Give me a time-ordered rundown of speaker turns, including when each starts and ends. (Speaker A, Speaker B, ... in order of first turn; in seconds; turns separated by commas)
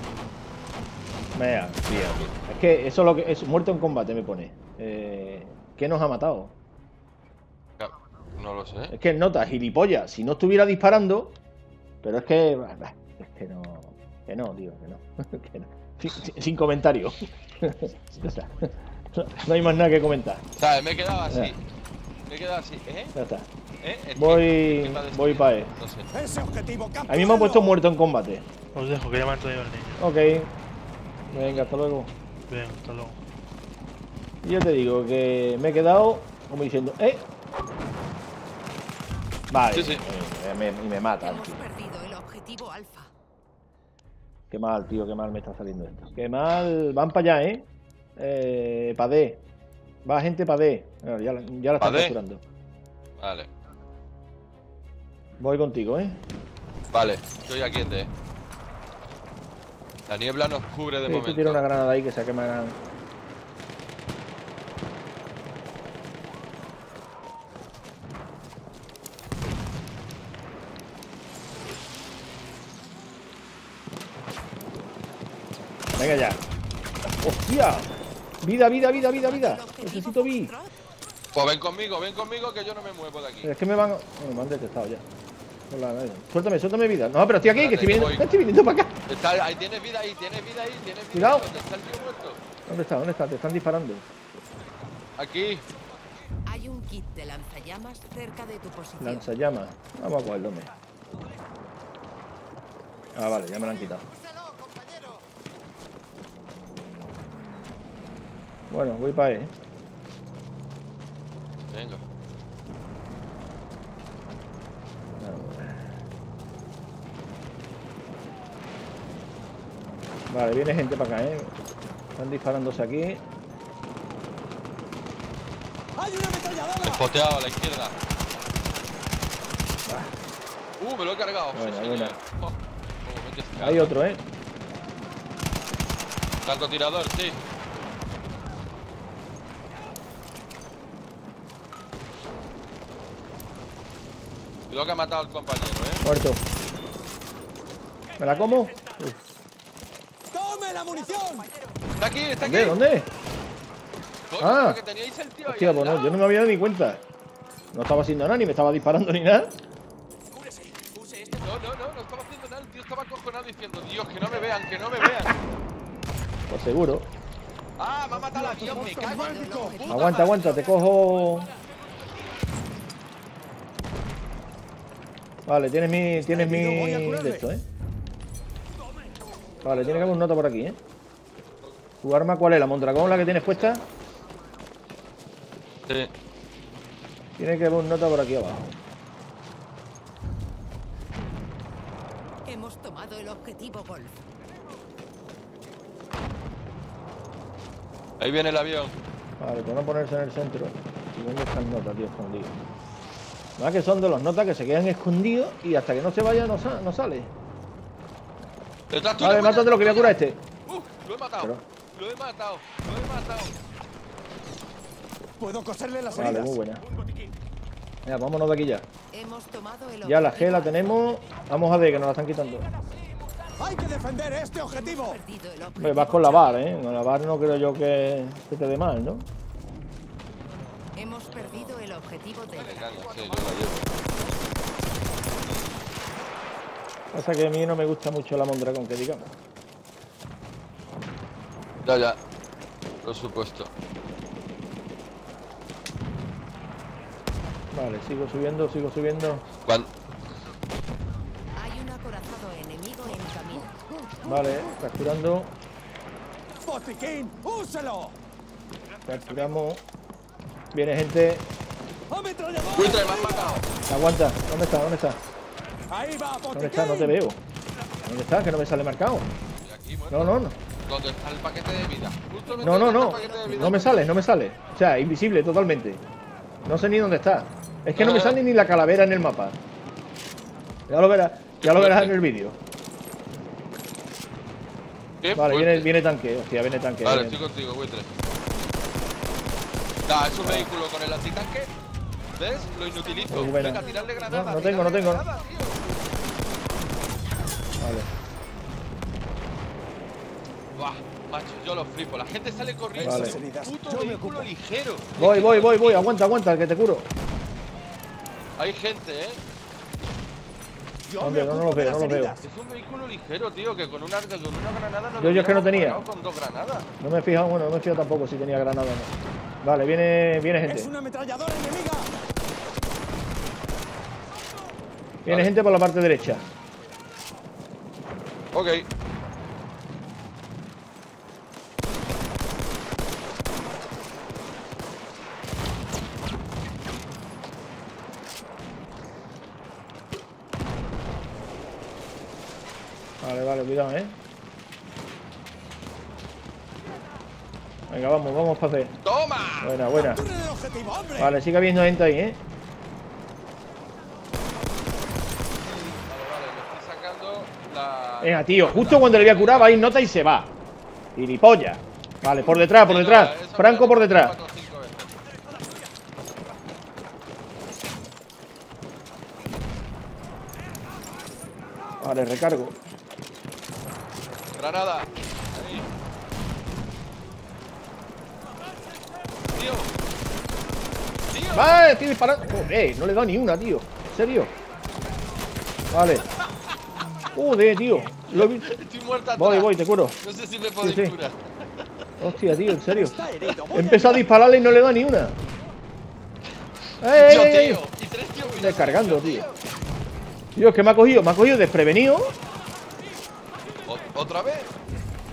Speaker A: 1.3-6.5, Speaker B: 7.8-8.9, Speaker A: 8.9-11.4, Speaker A: 12.0-20.4, Speaker B: 20.6-21.6, Speaker B: 22.3-23.1, Speaker A: 23.1-23.5, Speaker B: 23.8-26.1, Speaker A: 24.2-25.7, Speaker C: 26.1-27.7, Speaker A: 27.1-28.4, Speaker D: 28.8-30.0, Speaker A: 30.0-30.5, Speaker A: 31.3-32.1, Speaker B: 31.3-31.7, Speaker D: 32.5-33.2, Speaker A: 34.4-37.3, Speaker A: 39.5-41.7, Speaker B: 39.7-40.0, Speaker E: 41.2-43.1, Speaker A: 44.5-47.7, Speaker A: 48.2-49.4, Speaker A: 50.0-52.4, Speaker B: 51.8-52.2, Speaker B: 53.2-53.5, Speaker A: 55.4-56.2, Speaker B: 56.9-58.1, Speaker B: 60.1-61.6, Speaker A: 61.1-62.8, Speaker A: 76.0-76.4, Speaker A: 77.2-80.5, Speaker E: 79.0-80.8, Speaker B: 81.3-83.5, Speaker A: 83.4-85.0, Speaker A: 85.7-89.0, Speaker B: 87.5-88.4, Speaker B: 89.1-92.4, Speaker A: 91.1-91.5, Speaker A: 92.7-94.0, Speaker B: 95.2-95.7, Speaker E: 96.5-99.3, Speaker A: 99.0-100.7, Speaker A: 103.2-104.0, Speaker A: 108.7-109.5, Speaker B: 111.7-112.0, Speaker A: 115.2-115.8, Speaker A: 120.3-121.5, Speaker A: 122.2-123.2, Speaker C: 126.0-127.0, Speaker B: 126.8-128.0, Speaker A: 129.9-130.1, Speaker B: 130.8-134.0, Speaker A: 131.5-132.2, Speaker A: 133.6-134.2, Speaker B: 136.4-137.4, Speaker B: 144.7-146.0, Speaker A: 146.0-146.4, Speaker A: 148.2-149.2, Speaker C: 150.3-151.5, Speaker B: 151.9-152.8, Speaker A: 152.4-153.1, Speaker B: 154.3-156.2, Speaker A: 154.4-154.8, Speaker A: 155.4-157.0, Speaker A: 157.7-159.5, Speaker C: 160.8-161.2, Speaker B: 161.2-165.4, Speaker A: 166.5-167.1, Speaker B: 167.8-170.6, Speaker C: 168.3-169.8, Speaker E: 168.8-170.3, Speaker A: 169.9-171.5, Speaker A: 175.5-177.6, Speaker C: 176.3-177.5, Speaker B: 179.6-180.2, Speaker A: 179.6-180.8, Speaker A: 182.0-183.8, Speaker B: 185.9-186.1, Speaker A: 187.4-188.8, Speaker E: 192.4-194.2, Speaker B: 198.2-199.0, Speaker A: 199.4-202.6, Speaker A: 203.6-207.3, Speaker B: 208.9-213.6, Speaker A: 209.2-210.4, Speaker A: 211.4-211.6, Speaker C: 215.4-217.3, Speaker A: 216.1-216.8, Speaker A: 218.1-218.9, Speaker E: 219.1-221.1, Speaker A: 220.0-222.7, Speaker C: 223.6-225.2, Speaker E: 224.7-226.7, Speaker A: 225.8-229.3, Speaker E: 231.0-233.0, Speaker B: 232.6-234.0, Speaker A: 237.1-239.3, Speaker B: 241.8-242.2, Speaker B: 243.0-243.7, Speaker A: 247.7-249.4, Speaker B: 249.7-249.9, Speaker E: 251.6-253.8, Speaker A: 254.2-255.5, Speaker C: 256.6-258.1, Speaker A: 259.1-259.8, Speaker A: 260.7-261.5, Speaker C: 262.1-263.6, Speaker B: 262.7-263.7, Speaker A: 263.9-265.2, Speaker C: 265.9-267.2, Speaker A: 266.5-267.4, Speaker A: 268.1-269.3, Speaker B: 269.6-274.1, Speaker A: 270.1-270.6, Speaker E: 272.5-274.2, Speaker A: 272.6-276.0, Speaker A: 276.7-279.6, Speaker B: 278.0-278.4, Speaker A: 280.9-282.6, Speaker B: 281.6-282.1, Speaker B: 285.2-285.9, Speaker A: 285.4-287.4, Speaker B: 287.0-288.1, Speaker B: 290.1-291.7, Speaker A: 290.4-290.7, Speaker B: 292.4-295.9, Speaker E: 292.7-294.8, Speaker A: 293.3-295.2, Speaker A: 297.8-298.1, Speaker B: 300.7-306.1, Speaker C: 303.0-304.5, Speaker A: 303.0-303.4, Speaker A: 305.2-307.1, Speaker B: 308.6-309.4, Speaker C: 311.1-312.4, Speaker A: 311.2-312.4, Speaker B: 312.4-316.9, Speaker A: 315.2-316.0, Speaker A: 317.0-319.1, Speaker A: 319.6-320.9, Speaker C: 320.6-322.1, Speaker A: 325.2-326.4, Speaker B: 325.3-325.5, Speaker B: 328.5-328.9, Speaker A: 343.2-344.1, Speaker A: 347.9-348.9, Speaker B: 349.0-349.8, Speaker A: 349.6-350.2, Speaker C: 349.9-351.4, Speaker A: 351.2-352.4, Speaker B: 355.6-359.9, Speaker A: 358.2-360.5, Speaker A: 361.2-364.4, Speaker B: 362.6-365.2, Speaker A: 372.0-372.8, Speaker B: 374.5-375.9, Speaker B: 379.5-379.9, Speaker B: 381.3-381.8, Speaker A: 381.5-384.5, Speaker A: 385.9-386.3, Speaker A: 387.3-388.7, Speaker B: 388.3-391.9, Speaker A: 389.4-390.2, Speaker A: 390.8-391.2, Speaker A: 392.2-395.4, Speaker C: 392.9-394.3, Speaker A: 397.0-397.8, Speaker B: 397.1-399.6, Speaker A: 398.5-399.5, Speaker A: 400.6-402.3, Speaker B: 403.8-404.7